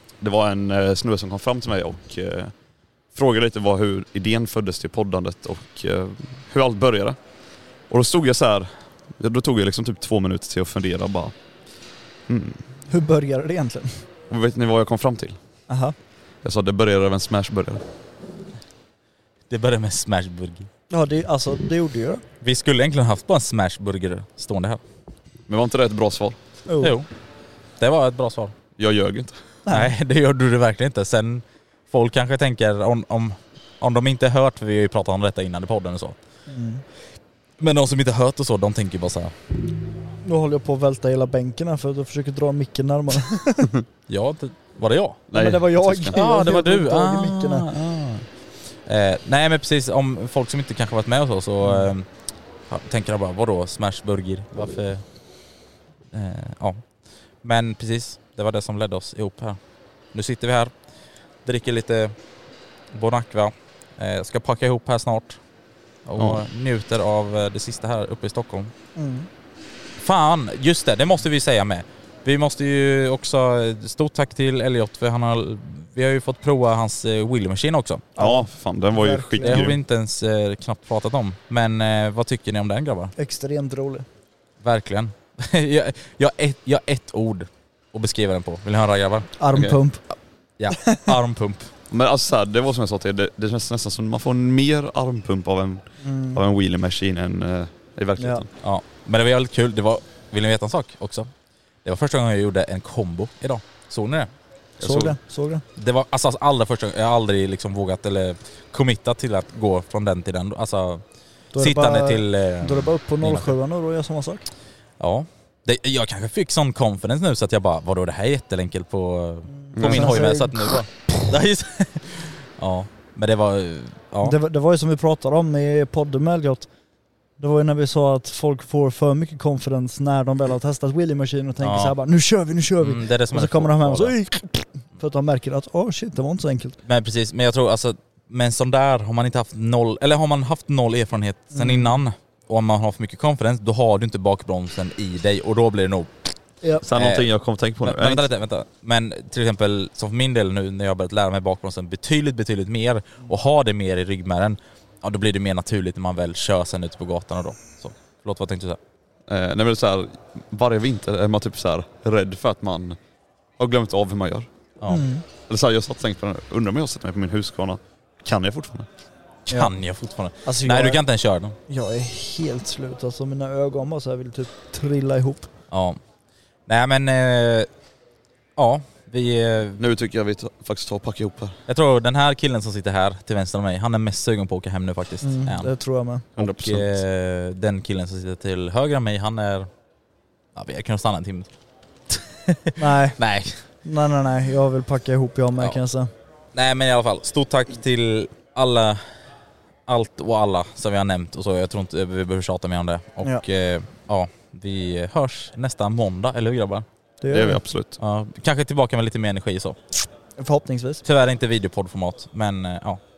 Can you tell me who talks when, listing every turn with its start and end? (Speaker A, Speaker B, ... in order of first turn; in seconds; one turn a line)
Speaker A: 0.2-12.7
Speaker B: 12.9-14.1
Speaker A: 14.3-15.9
Speaker B: 15.7-16.0
Speaker A: 16.4-17.8
Speaker C: 19.5-20.7
Speaker B: 20.9-22.2
Speaker C: 22.4-24.8
Speaker A: 25.5-26.4
Speaker B: 26.7-27.0
Speaker C: 26.8-28.5
Speaker A: 28.8-29.6
Speaker B: 29.7-29.9
Speaker C: 29.7-36.4
Speaker B: 36.5-36.8
Speaker C: 37.6-39.3
Speaker B: 40.2-43.7
Speaker C: 44.1-45.3
Speaker A: 45.3-46.2
Speaker B: 45.3-47.7
Speaker C: 45.9-47.7
Speaker A: 47.7-48.2
Speaker C: 48.7-68.7
Speaker B: 51.6-51.9
Speaker A: 66.2-66.4
Speaker B: 69.0-69.3
Speaker C: 70.0-78.1
Speaker B: 78.2-79.6
Speaker A: 78.2-79.8
Speaker C: 79.4-83.1
Speaker B: 83.2-84.1
Speaker C: 84.6-91.7
Speaker B: 89.4-91.0
Speaker A: 91.9-98.5
Speaker B: 96.0-96.4
Speaker B: 98.2-98.4
Speaker C: 98.6-101.3
Speaker C: 101.8-104.3
Speaker A: 104.8-105.2
Speaker B: 104.8-105.6
Speaker C: 105.8-113.5
Speaker B: 111.5-114.5
Speaker C: 115.0-124.4
Speaker B: 119.5-121.2
Speaker A: 119.8-120.4
Speaker B: 124.2-126.7
Speaker B: 127.3-136.8
Speaker C: 131.6-132.0
Speaker C: 132.8-134.3
Speaker C: 136.8-158.8
Speaker B: 141.5-142.0
Speaker A: 146.8-148.3
Speaker A: 159.3-163.0
Speaker A: 163.6-164.7
Speaker C: 164.8-165.1
Speaker B: 164.9-165.2
Speaker A: 165.4-168.9
Speaker C: 169.5-171.6
Speaker B: 169.5-171.2
Speaker B: 171.7-175.5
Speaker C: 175.7-176.0
Speaker C: 176.7-177.7
Speaker C: 178.6-179.8
Speaker A: 179.8-181.6
Speaker C: 181.7-189.7
Speaker B: 185.2-186.3
Speaker A: 186.4-187.0
Speaker C: 190.6-191.6
Speaker C: 192.1-193.7
Speaker B: 192.8-196.1
Speaker C: 195.6-199.3
Speaker C: 199.9-206.8
Speaker B: 207.2-207.6
Speaker A: 207.3-207.9
Speaker C: 208.0-209.8
Speaker B: 210.4-211.0
Speaker C: 211.0-213.0